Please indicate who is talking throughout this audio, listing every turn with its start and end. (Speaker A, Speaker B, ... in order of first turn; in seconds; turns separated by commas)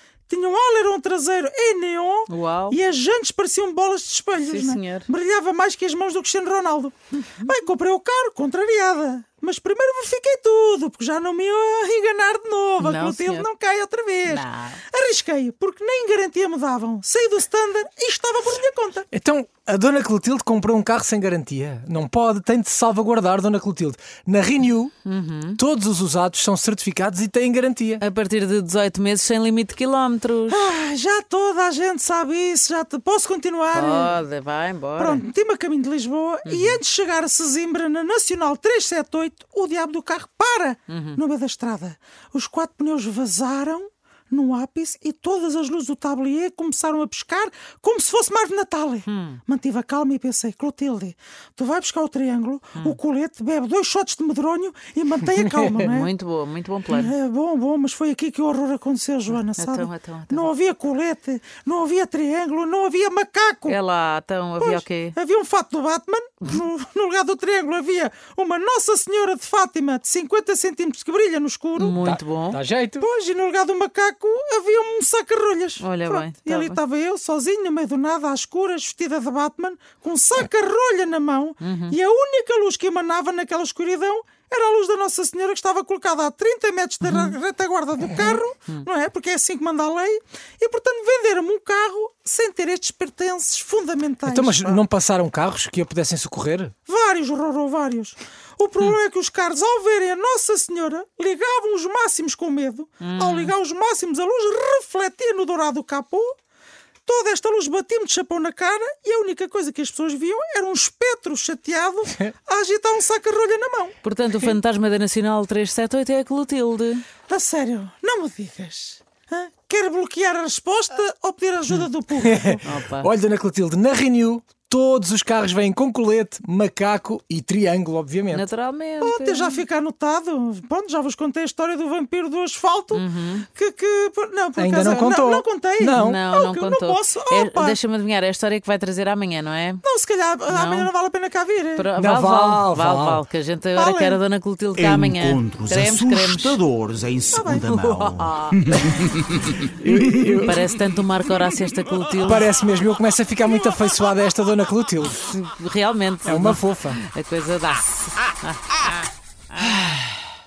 Speaker A: 0.3-19.1, Speaker B: 2.3-2.8, Speaker B: 4.4-5.1, Speaker B: 12.8-13.5, Speaker B: 14.3-14.8, Speaker C: 19.1-24.9, Speaker B: 25.1-25.6, Speaker C: 25.6-28.0, Speaker B: 28.0-30.7, Speaker A: 30.5-34.2, Speaker B: 33.7-35.2, Speaker A: 35.0-56.1, Speaker B: 36.5-36.8, Speaker B: 40.9-41.2, Speaker B: 49.1-49.4, Speaker B: 55.7-57.1, Speaker A: 56.9-63.8, Speaker B: 59.6-60.5, Speaker B: 63.7-65.2, Speaker A: 64.6-72.0, Speaker B: 71.8-72.6, Speaker C: 72.0-73.0, Speaker A: 73.0-94.8, Speaker B: 75.8-76.8, Speaker B: 81.6-82.0, Speaker B: 87.0-87.3, Speaker C: 94.3-96.7, Speaker A: 96.9-106.3, Speaker B: 103.0-103.5, Speaker A: 107.1-114.6, Speaker B: 114.0-117.0, Speaker A: 117.3-122.7, Speaker C: 122.2-128.5, Speaker B: 122.6-123.1, Speaker B: 128.3-129.6, Speaker A: 129.0-137.8, Speaker B: 132.9-133.5, Speaker C: 134.6-136.2, Speaker B: 136.0-139.8, Speaker A: 139.8-141.9, Speaker B: 140.5-140.9, Speaker B: 141.8-146.6, Speaker C: 142.0-143.2, Speaker A: 143.8-144.2, Speaker D: 144.8-149.6, Speaker A: 147.3-147.7, Speaker B: 147.8-148.9, Speaker C: 149.8-150.8, Speaker B: 150.4-152.5, Speaker C: 152.2-155.3, Speaker B: 155.3-159.8, Speaker C: 156.2-157.0, Speaker D: 159.7-160.2